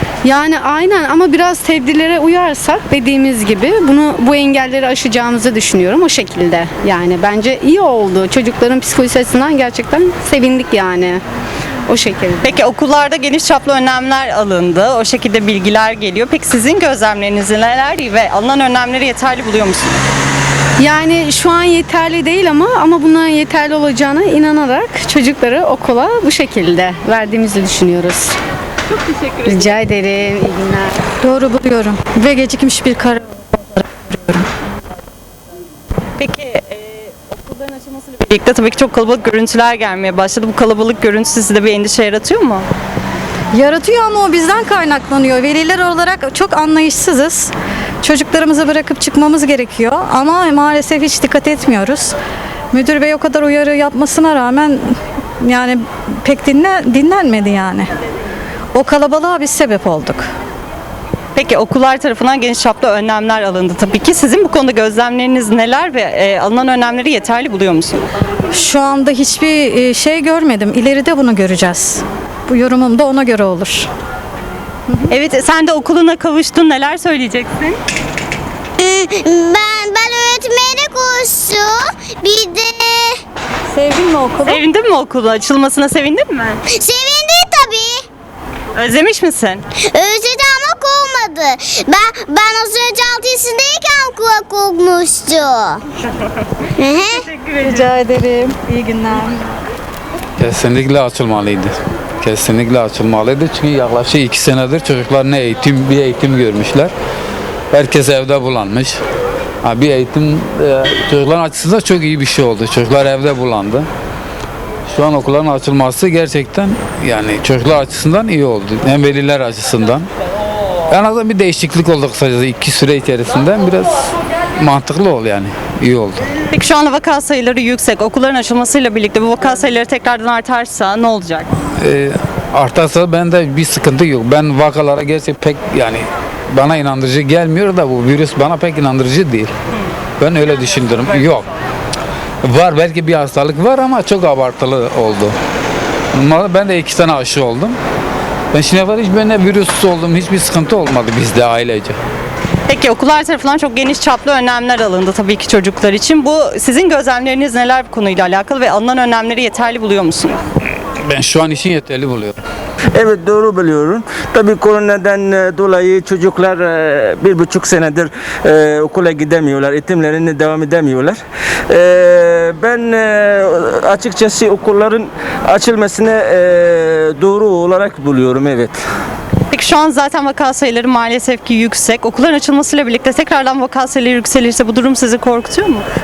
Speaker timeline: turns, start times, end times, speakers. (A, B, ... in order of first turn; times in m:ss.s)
0:00.2-0:11.2 A
0:11.9-0:12.6 A
0:12.4-0:20.0 B
0:20.8-0:28.3 A
0:29.4-0:31.0 A
0:31.2-0:34.4 C
0:36.2-0:42.6 B
0:43.5-0:52.2 C
0:52.7-0:57.9 C
0:58.7-1:00.3 C
1:01.4-1:08.0 B
1:08.5-1:13.9 C
1:15.1-1:17.8 B
1:18.8-1:23.2 D
1:23.7-1:24.6 C
1:24.4-1:26.6 B
1:26.7-1:28.0 D
1:28.8-1:29.6 B
1:29.9-1:35.8 D
1:36.8-1:37.3 D
1:37.6-1:39.4 C
1:40.4-1:46.9 E
1:47.7-1:49.0 E
1:49.6-1:53.9 E
1:54.9-2:00.1 E
2:00.9-2:04.0 E
2:04.6-2:06.2 E
2:06.5-2:11.5 B
2:11.8-2:19.5 E
2:20.2-2:21.4 E
2:22.4-2:25.4 E
2:26.1-2:27.8 E
2:28.5-2:32.0 E
2:32.7-2:40.4 B
2:41.0-2:42.4 E
2:43.0-2:51.2 F
2:51.7-2:58.8 F
2:59.5-3:05.9 B